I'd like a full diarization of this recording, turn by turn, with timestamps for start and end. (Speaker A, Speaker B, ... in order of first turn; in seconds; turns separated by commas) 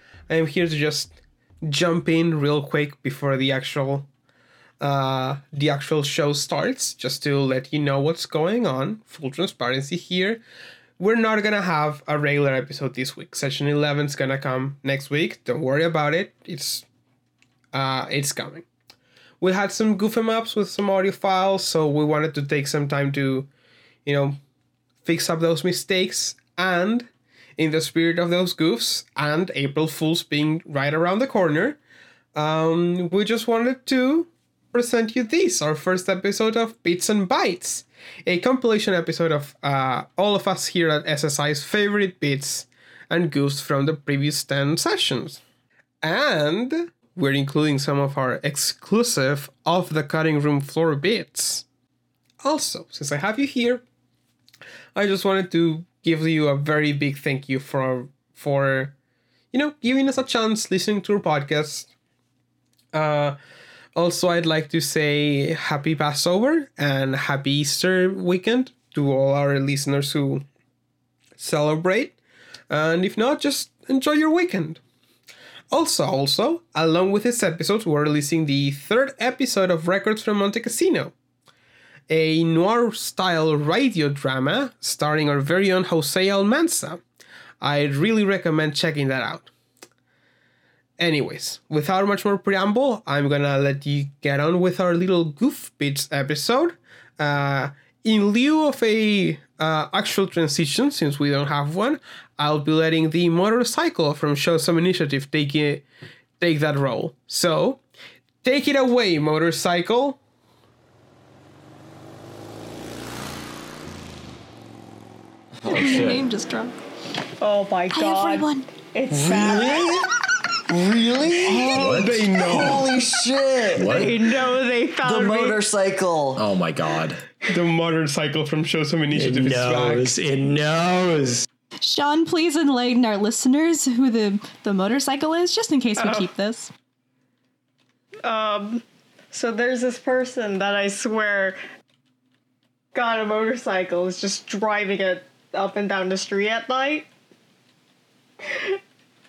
Speaker A: 0.3-4.1, Speaker A: 4.8-10.4, Speaker A: 11.0-16.9, Speaker A: 17.7-18.7, Speaker A: 19.4-23.5, Speaker A: 24.1-24.4, Speaker A: 25.1-31.8, Speaker A: 32.4-45.4, Speaker A: 46.0-51.6, Speaker A: 52.4-53.8, Speaker A: 55.0-59.0, Speaker A: 59.5-61.9, Speaker A: 62.9-63.4, Speaker A: 64.0-70.5, Speaker A: 71.4-72.2, Speaker A: 72.7-74.8, Speaker A: 75.7-81.1, Speaker A: 82.1-87.0, Speaker A: 87.6-89.5, Speaker A: 91.0-105.9, Speaker A: 106.4-107.8, Speaker A: 108.4-110.2, Speaker B: 115.6-116.2, Speaker C: 115.7-116.8, Speaker D: 117.4-119.9, Speaker C: 117.9-118.7, Speaker B: 119.1-120.1, Speaker B: 120.7-124.1, Speaker A: 121.4-123.1, Speaker C: 121.7-122.3, Speaker D: 123.7-125.6, Speaker C: 123.8-124.5, Speaker B: 125.0-126.5, Speaker C: 126.4-127.2, Speaker A: 127.5-130.2, Speaker E: 129.1-131.5, Speaker C: 131.8-136.7, Speaker D: 136.0-136.3, Speaker D: 138.2-141.6, Speaker D: 142.9-147.1